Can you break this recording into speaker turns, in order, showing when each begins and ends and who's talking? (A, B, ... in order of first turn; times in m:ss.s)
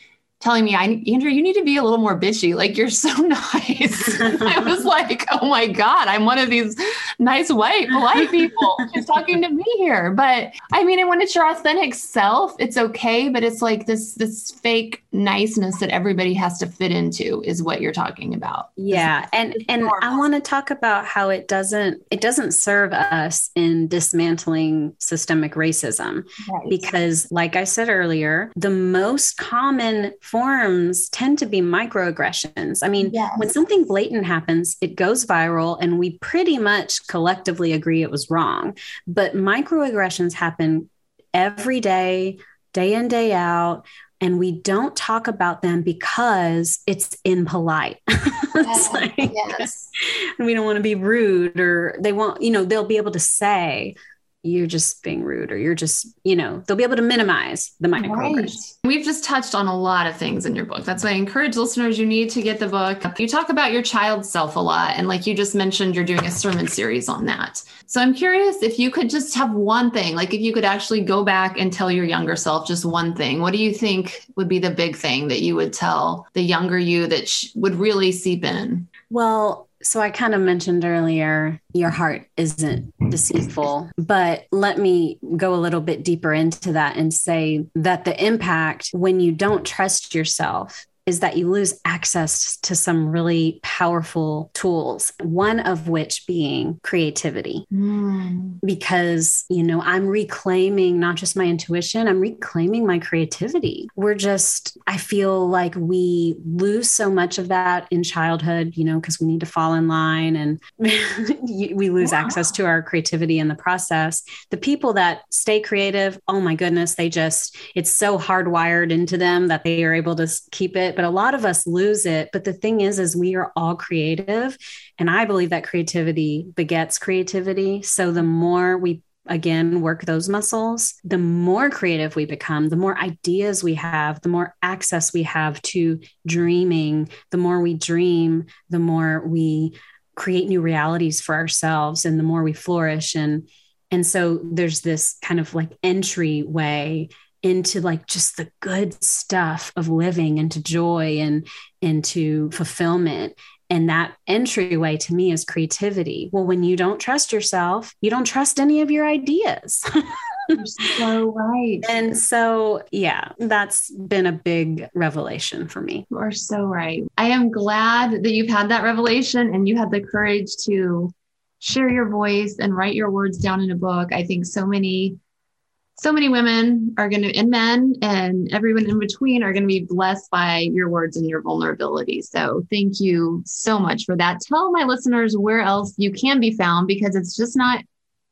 0:00.4-0:20.2 A
0:04.2-0:04.6 B
0:18.8-0:58.6 B
0:26.4-0:26.9 A
0:33.0-0:33.5 A
0:48.6-0:49.9 A
0:58.0-1:18.9 A
1:19.1-1:37.7 B
1:37.7-1:38.6 A
1:38.6-2:40.9 B
1:52.0-1:52.4 A
2:40.5-2:41.9 A
2:41.8-2:46.1 B
2:46.1-2:55.2 A
2:56.0-3:07.8 A